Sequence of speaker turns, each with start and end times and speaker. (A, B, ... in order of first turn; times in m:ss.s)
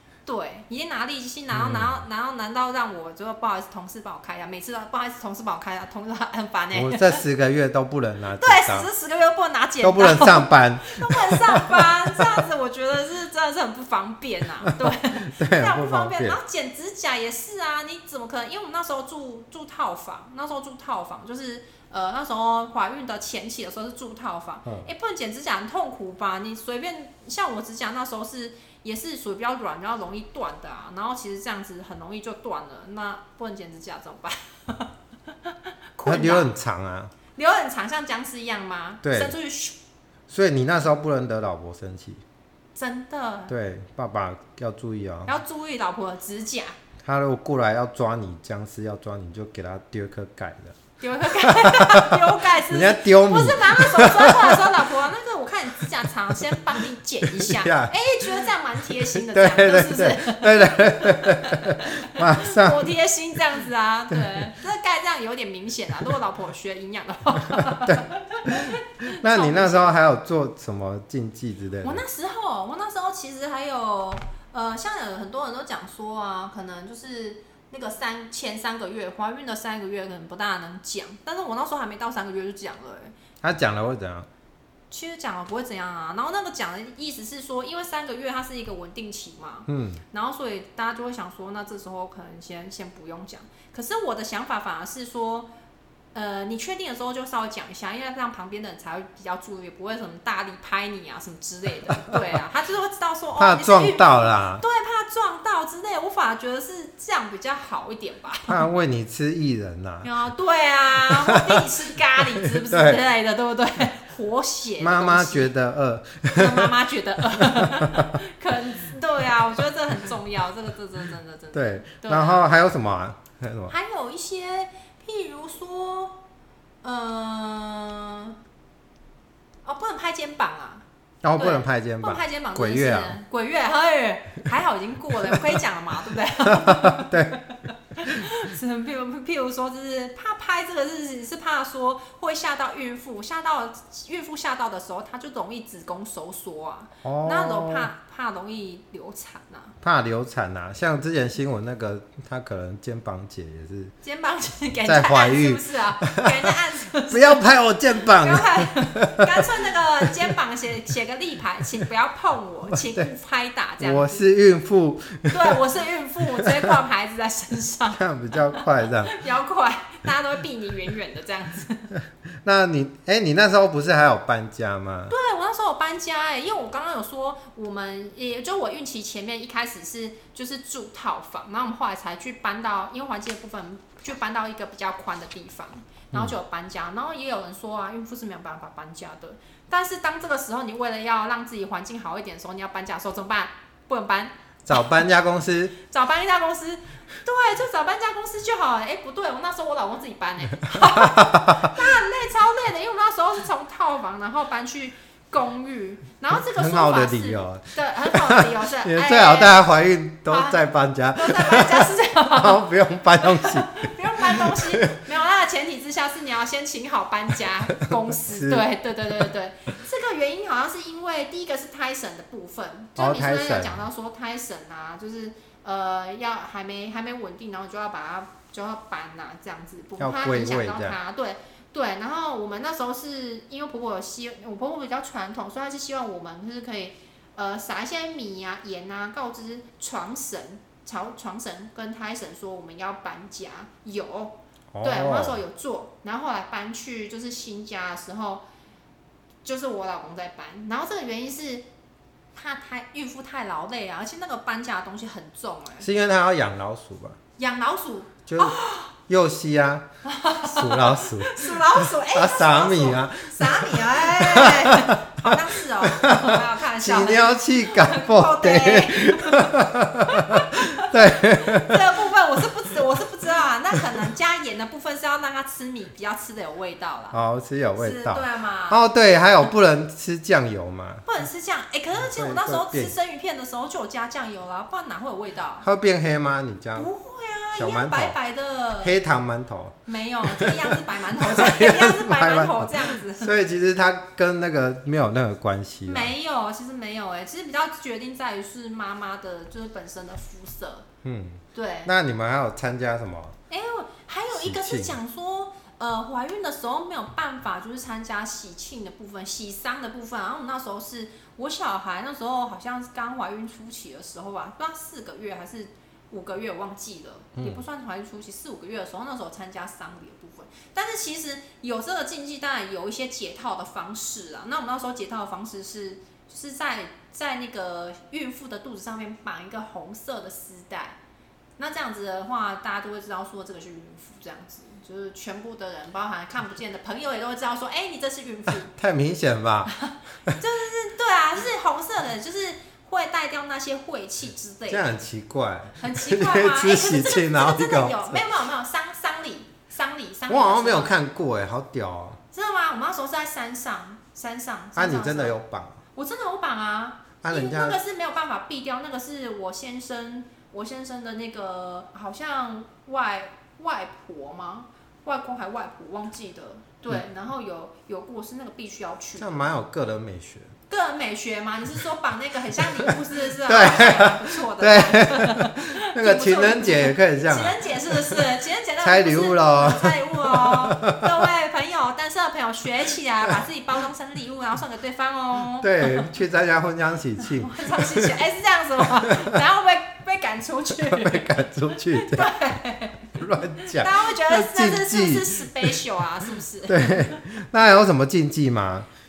0:00.2-0:07.2 A
0:01.5-0:02.0 B
0:06.7-0:08.9 B
0:08.4-0:34.9 A
0:09.8-0:12.4 B
0:14.6-0:16.4 B
0:35.4-0:36.5 A
0:36.0-0:37.1 B
0:37.3-0:39.8 A
0:39.0-0:39.4 B
0:40.3-0:42.2 B
0:42.7-0:43.5 A
0:43.5-0:45.3 B
0:45.2-0:46.8 A
0:47.0-0:54.9 B
0:51.0-1:09.9 A
0:57.2-0:58.5 B
0:59.1-1:02.9 B
1:04.1-1:04.5 B
1:07.5-1:12.0 B
1:11.8-1:23.1 A
1:23.4-1:24.3 B
1:24.9-1:35.5 A
1:29.7-1:30.0 B
1:36.1-1:48.6 A
1:43.4-1:44.6 B
1:48.5-1:50.1 B
1:50.0-1:55.5 A
1:51.0-1:51.7 B
1:52.4-1:53.0 B
1:54.8-1:56.7 B
1:56.3-2:02.5 A
1:57.3-1:58.2 B
2:01.5-2:03.7 B
2:03.7-2:06.2 A
2:06.8-2:08.4 A
2:09.6-2:10.8 A
2:11.2-2:13.2 B
2:11.4-2:29.7 A
2:16.4-2:17.4 B
2:27.0-2:27.9 B
2:29.8-2:33.9 B
2:34.0-2:37.4 A
2:34.8-2:36.5 B
2:37.0-2:40.3 B
2:38.0-2:44.2 A
2:42.8-2:43.1 B
2:43.8-2:45.6 B
2:45.3-2:51.9 A
2:46.4-2:46.7 B
2:47.9-2:49.1 B
2:52.4-2:55.1 B
2:55.1-3:14.3 A
3:14.6-3:15.8 B
3:15.8-3:29.6 A
3:20.7-3:21.8 B
3:26.3-3:35.0 B
3:30.3-3:30.6 A
3:31.2-3:32.6 A
3:33.2-4:08.4 A
3:37.9-3:38.6 B
3:43.0-3:43.8 B
3:50.0-3:51.0 B
4:04.7-4:05.4 B
4:09.4-4:11.6 A
4:12.3-4:15.9 A
4:15.8-4:17.2 B
4:17.4-4:18.9 A
4:18.3-4:19.9 B
4:20.0-4:37.2 A
4:20.4-4:31.9 B
4:37.1-4:41.0 B
4:37.8-4:38.8 A
4:41.0-4:45.6 A
4:41.9-4:42.9 B
4:45.6-4:46.9 B
4:46.7-4:48.9 A
4:47.5-4:48.2 B
4:48.8-4:56.1 B
4:49.8-4:53.3 A
4:55.8-5:00.8 A
5:01.0-5:03.4 B
5:01.5-5:01.9 A
5:03.5-5:31.0 A
5:04.3-5:05.0 B
5:17.4-5:17.6 B
5:31.6-5:38.7 A
5:38.6-5:40.4 B
5:39.7-5:45.0 A
5:44.7-5:48.2 B
5:45.8-5:50.9 A
5:50.3-5:52.2 B
5:52.3-5:55.3 A
5:54.8-5:55.8 B
5:55.9-6:09.5 A
5:57.2-5:57.8 B
6:09.2-6:10.5 B
6:10.7-6:26.1 A
6:12.9-6:18.2 B
6:18.8-6:21.1 B
6:25.6-6:28.2 B
6:27.3-6:37.2 A
6:29.0-6:29.4 B
6:30.7-6:32.4 B
6:33.1-6:35.8 B
6:36.7-6:38.9 B